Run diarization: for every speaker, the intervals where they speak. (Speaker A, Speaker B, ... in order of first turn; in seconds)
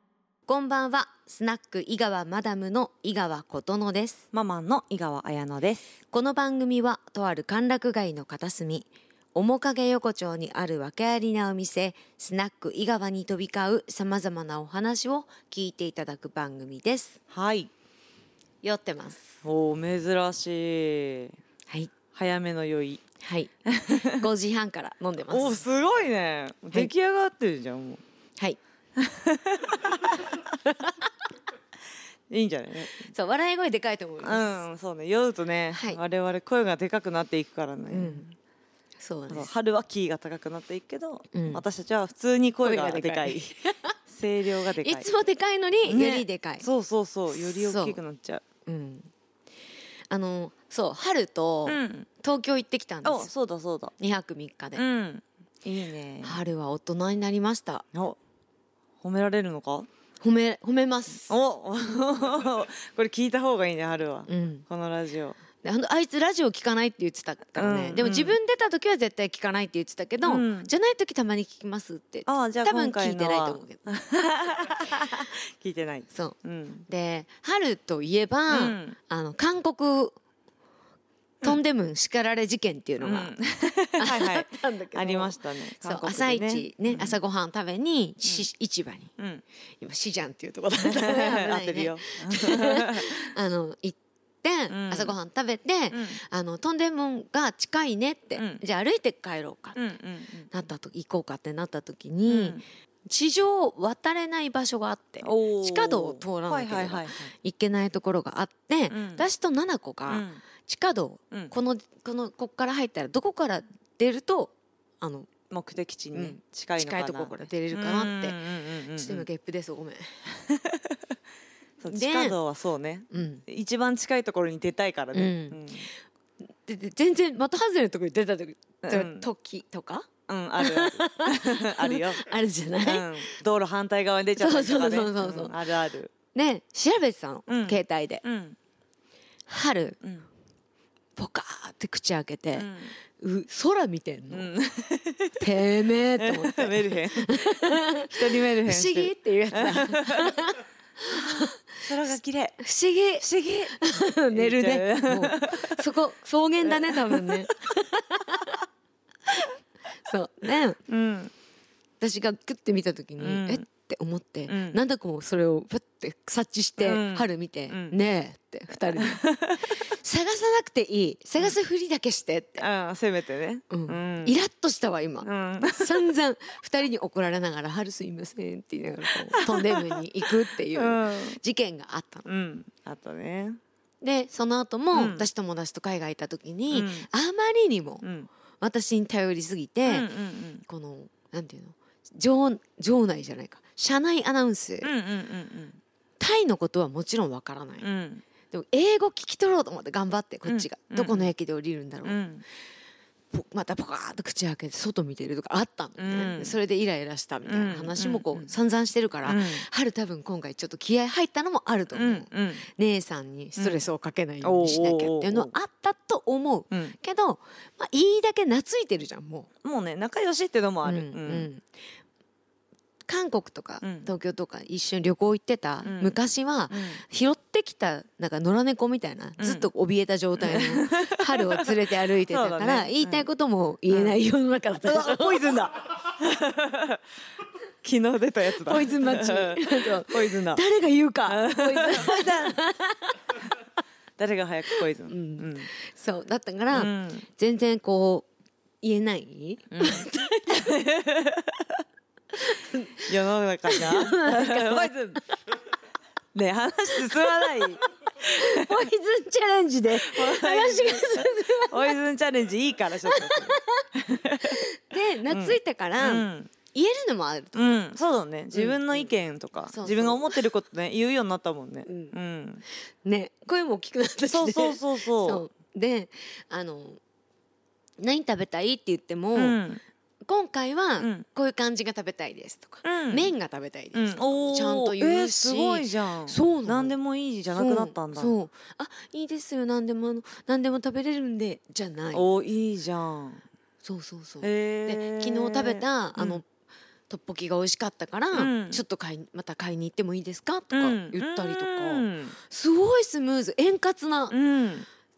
Speaker A: 0.5-4.2, 6.1-17.2, 18.6-19.3, 23.2-25.6, 33.1-34.6, 35.7-36.0, 37.9-38.2, 39.0-39.5, 41.3-41.6, 42.6-44.0, 44.8-46.7, 47.3-48.0, 48.6-49.1, 50.1-53.3, 54.0-54.8, 56.2-57.8, 60.2-61.3, 64.3-64.6, 65.6-73.8, 76.1-80.1, 81.4-83.3, 84.0-89.1, 89.8-99.8, 100.5-115.3, 116.1-118.4, 118.9-120.2, 121.9-122.4, 123.1-123.4, 125.1-125.7, 126.5-130.1, 130.6-133.3, 134.4-135.6, 136.3-138.2, 139.5-140.0, 141.2-144.5, 145.4-151.6, 152.6-158.6, 160.0-160.8, 162.0-169.2, 169.8-172.7, 173.7-182.2, 184.0-188.1, 188.6-190.1, 190.7-194.9, 196.2-197.8, 198.5-202.2, 203.3-219.5, 220.8-221.6, 223.1-235.6, 238.6-243.2, 244.8-248.3, 248.8-250.9, 252.4-253.1, 253.7-255.2, 258.2-261.9, 263.1-263.8, 264.5-267.8, 268.5-269.1, 269.7-270.4, 271.9-272.1, 273.0-277.0, 278.0-279.6, 280.2-286.9, 287.5-292.3, 293.8-296.4, 297.1-304.4
Speaker B: 4.3-5.8, 17.3-17.7, 19.4-21.3, 22.1-23.0, 23.7-24.1, 25.3-28.0, 29.0-30.4, 32.3-33.1, 34.2-38.3, 39.3-43.5, 44.1-45.1, 45.8-48.4, 51.7-52.1, 53.0-53.9, 54.7-56.4, 59.0-59.9, 61.3-65.4, 67.5-68.4, 70.2-70.7, 72.2-76.9, 78.5-79.0, 83.0-87.2, 90.8-93.3, 94.7-95.2, 95.9-96.2, 98.4-98.6, 99.7-100.5, 102.3-102.6, 105.2-107.3, 108.9-109.3, 110.1-110.4, 115.5-119.3, 120.5-121.0, 121.8-125.9, 128.8-129.3, 130.3-132.3, 132.8-136.1, 137.5-138.6, 142.5-142.9, 144.3-145.6, 146.2-150.4, 151.1-152.6, 153.2-155.8, 156.6-157.5, 160.9-161.3, 163.2-163.7, 164.5-164.8, 166.8-167.9, 169.0-169.6, 172.6-174.4, 175.2-176.1, 179.3-180.0, 180.7-181.4, 182.2-183.6, 184.9-185.3, 186.7-187.1, 188.0-188.3, 189.8-190.6, 194.8-195.8, 197.8-198.2, 200.4-201.3, 202.0-202.4, 206.0-206.6, 207.4-208.5, 209.2-209.6, 211.9-212.6, 213.6-213.8, 214.4-215.5, 219.6-221.5, 223.8-224.1, 225.8-226.2, 226.7-227.0, 229.4-229.7, 230.4-233.2, 233.9-234.2, 234.8-237.0, 237.8-240.6, 241.3-242.6, 244.2-245.7, 246.7-247.3, 249.7-251.5, 253.1-255.2, 256.3-258.9, 259.9-264.6, 265.3-266.5, 267.5-272.6, 274.3-275.4, 279.4-279.8, 281.0-281.2, 282.8-283.3, 283.9-288.3, 292.1-293.4, 294.4-296.4, 298.3-298.8, 300.7-302.4, 304.3-304.9